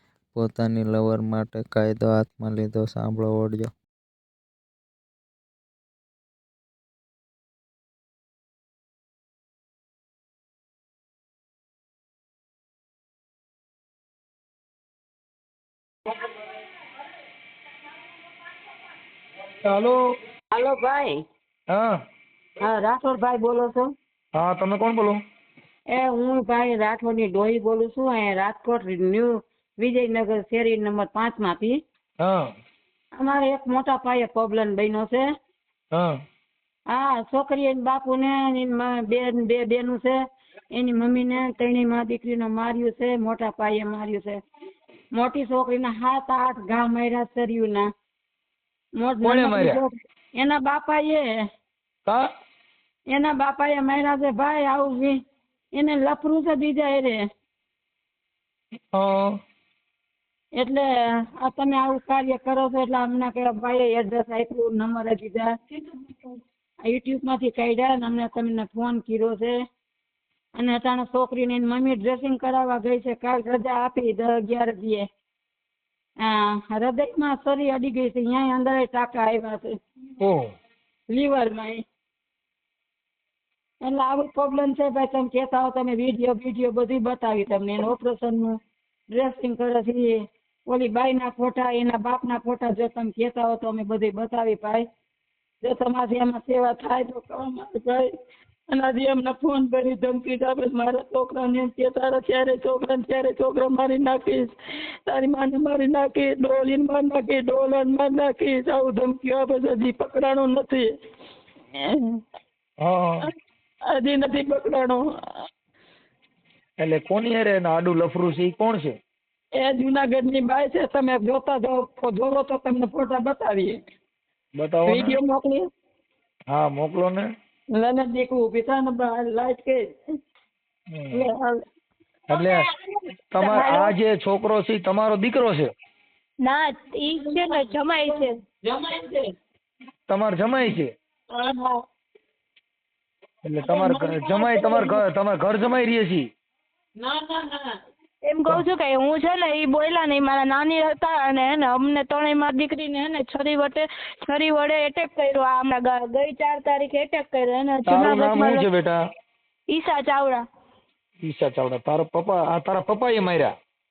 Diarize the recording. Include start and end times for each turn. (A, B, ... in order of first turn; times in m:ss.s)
0:00.3-0:03.7 A
0:19.6-0:20.0 B
0:20.5-0:21.2 C
0:21.7-0:21.9 B
0:22.6-0:23.9 C
0:24.3-0:25.2 B
0:25.9-0:31.8 C
0:32.2-0:32.5 B
0:33.1-0:35.2 C
0:36.9-0:40.2 C
0:40.7-0:44.4 C
0:45.1-0:47.9 C
0:49.0-0:51.4 C
0:49.2-0:49.8 B
0:53.1-0:55.2 C
0:55.7-0:57.2 C
0:58.9-0:59.3 B
1:00.5-1:05.6 C
1:06.8-1:09.6 C
1:10.6-1:15.1 C
1:16.2-1:19.8 C
1:20.2-1:20.5 B
1:21.1-1:21.8 C
1:23.8-1:34.9 C
1:35.6-1:38.1 C
1:38.7-1:44.5 C
1:45.0-1:50.9 C
1:51.7-1:52.2 C
1:52.8-1:53.2 B
1:53.8-1:55.4 C
1:56.8-1:59.0 B
1:59.5-2:03.8 C
2:04.5-2:05.2 B
2:04.9-2:05.7 C
2:06.5-2:07.2 B
2:07.7-2:10.0 C
2:10.9-2:11.2 B
2:11.1-2:11.5 C
2:12.3-2:12.7 B
2:12.3-2:12.6 C
2:13.3-2:15.7 B
2:13.4-2:13.9 D
2:16.4-2:18.3 D
2:17.2-2:17.6 C
2:18.6-2:19.3 C
2:20.1-2:20.9 B
2:23.4-2:26.3 B
2:23.6-2:24.7 D
2:27.0-2:27.7 C
2:28.3-2:38.6 D
2:37.9-2:39.0 B
2:39.7-2:40.4 D
2:41.2-2:43.5 B